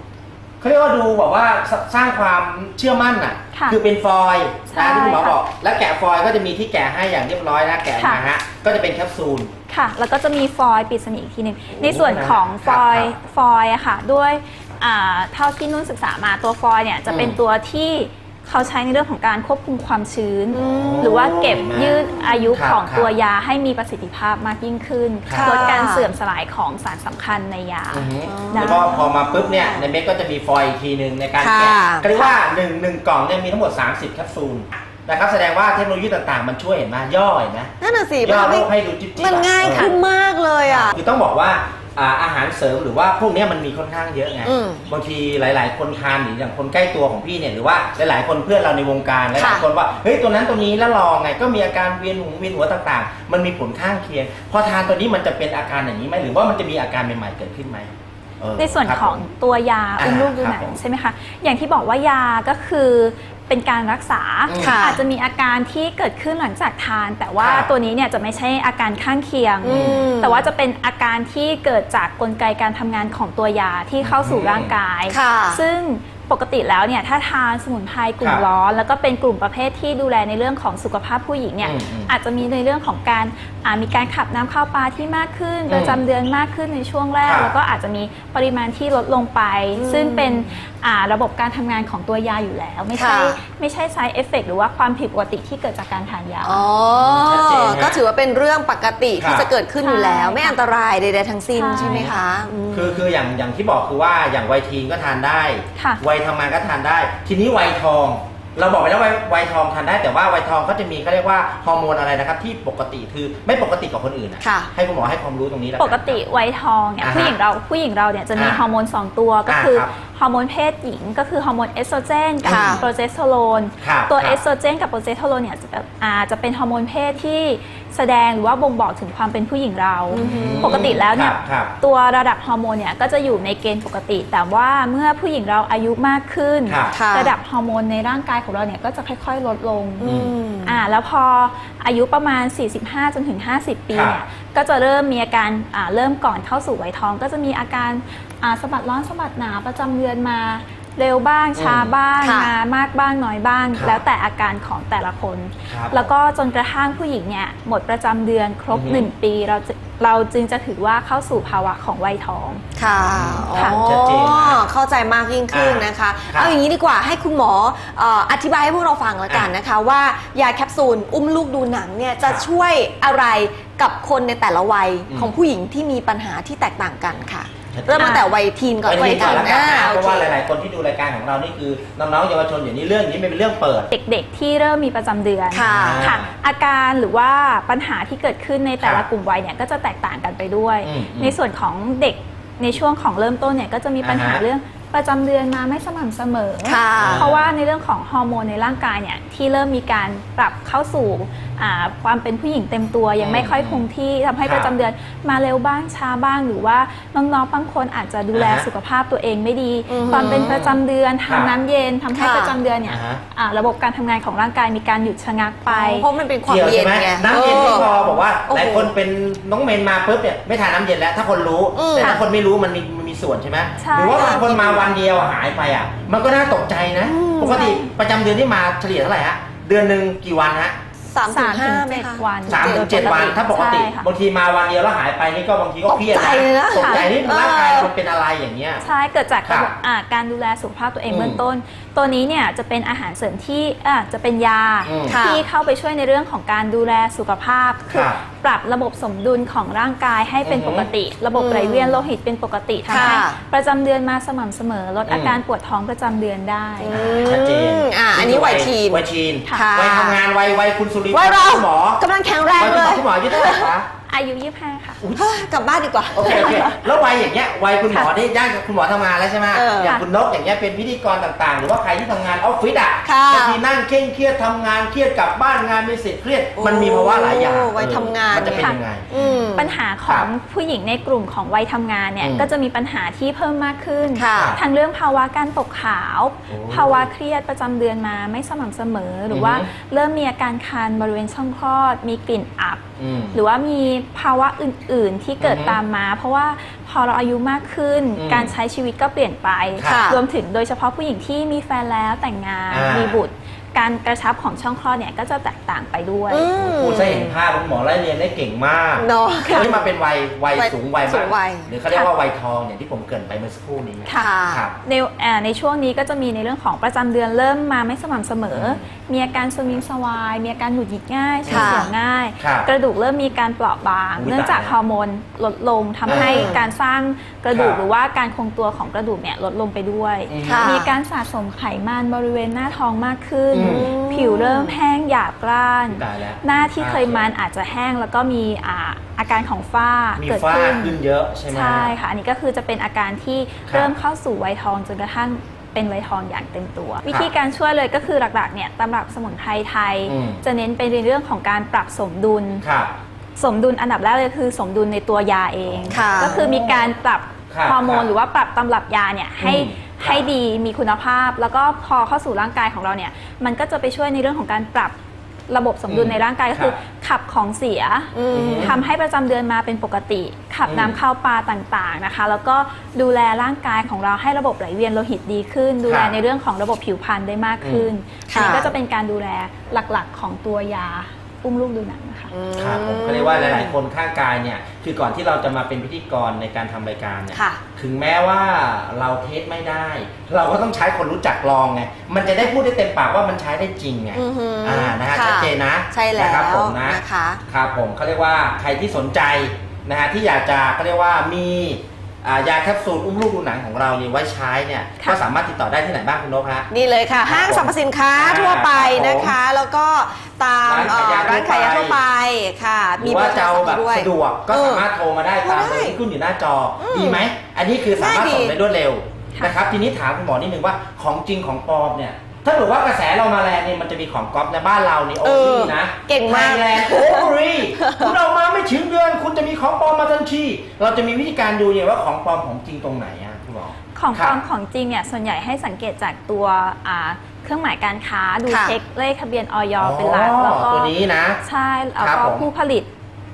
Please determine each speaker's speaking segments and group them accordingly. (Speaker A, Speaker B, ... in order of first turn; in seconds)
Speaker A: 0.6-9.5, 11.7-13.2, 17.1-17.4, 20.6-23.1, 25.2-25.8, 27.9-39.9, 40.6-59.2, 60.0-60.7, 64.5-64.8, 67.4-67.7, 69.7-70.1, 74.0-74.7, 81.6-82.1, 85.7-86.0, 87.2-87.5, 96.9-98.0, 99.2-99.5, 101.7-102.1, 102.7-116.2, 117.0-117.3, 118.3-118.6, 119.5-119.9, 122.4-122.9, 123.8-124.4, 130.2-131.7, 136.7-137.0, 140.0-140.3, 143.9-144.2, 151.6-151.9, 153.7-154.0, 155.7-156.1, 158.7-159.1, 163.1-164.6, 165.5-166.5, 177.7-178.2, 178.8-183.9, 185.6-186.3, 190.8-191.4, 194.0-194.4, 196.9-197.5, 203.2-203.8, 204.4-204.7, 208.3-208.7, 210.1-211.5, 212.9-213.2, 216.4-230.8, 232.4-238.8, 239.4-239.7, 241.1-241.4, 244.8-245.2, 247.9-248.2, 250.4-250.9, 255.1-255.4, 256.9-262.0, 262.6-263.9, 265.0-265.4, 266.1-279.1, 282.2-282.5, 284.3-284.6, 286.5-287.1, 289.3-289.7, 293.0-293.4, 295.4-295.8, 298.1-298.5, 299.8-300.1, 302.7-303.2, 306.6-314.8, 318.5-318.8, 321.5-322.7, 324.1-324.7, 326.1-326.6, 327.5-327.8, 330.3-330.8, 333.5-333.9, 335.9-337.3, 340.2-341.9, 343.7-343.9, 350.1-350.4, 352.6-352.9, 355.6-356.8, 357.5-358.1, 359.4-360.3, 365.9-366.7, 368.3-368.8, 370.6-371.0, 375.9-376.1, 377.6-377.9, 382.6-406.7, 407.2-409.4, 410.6-412.0, 413.0-434.4, 439.8-441.4, 442.0-442.5
Speaker B: 3.5-3.8, 4.7-5.4, 8.0-8.2, 9.7-29.1, 58.6-96.7, 99.8-100.6, 101.5-102.1, 105.8-106.0, 115.8-162.6, 163.5-163.8, 178.0-178.3, 179.1-179.5, 183.9-216.1, 217.3-218.2, 223.8-224.8, 227.5-227.9, 231.3-234.1, 236.7-237.1, 238.8-256.9, 264.1-265.0, 266.3-266.6, 278.4-278.8, 279.5-306.5, 314.1-314.3, 314.8-341.0, 341.5-352.6, 353.4-364.9, 365.5-382.3, 433.9-442.9
Speaker C: 20.5-21.2, 25.3-26.1, 28.2-29.9, 31.4-32.4, 37.8-41.0, 44.4-44.9, 49.4-49.7, 64.6-65.0, 69.6-70.5, 75.1-75.6, 89.7-90.6, 93.0-93.4, 96.4-103.0, 114.4-114.7, 122.5-122.8, 130.1-130.9, 136.9-137.3, 140.0-140.8, 152.2-152.5, 162.8-180.3, 185.5-186.1, 196.6-197.3, 209.9-210.5, 212.1-212.5, 215.7-217.9, 218.5-218.9, 221.7-222.2, 224.1-224.8, 227.1-227.8, 231.1-233.3, 235.9-237.9, 245.1-245.4, 251.3-252.1, 252.9-253.4, 256.8-260.2, 261.1-263.7, 265.1-266.8, 269.5-270.0, 273.0-273.6, 276.6-279.7, 284.1-284.6, 299.8-300.2, 306.3-307.4, 309.0-309.8, 310.5-311.7, 314.1-314.6, 321.5-321.9, 326.1-326.6, 330.4-330.9, 333.6-334.7, 355.9-356.4, 368.1-368.8, 378.3-378.7, 382.3-383.7, 387.3-387.6, 394.1-397.4, 406.7-414.8, 415.4-416.0, 416.8-417.3, 417.9-418.6, 425.2-428.1, 438.5-438.7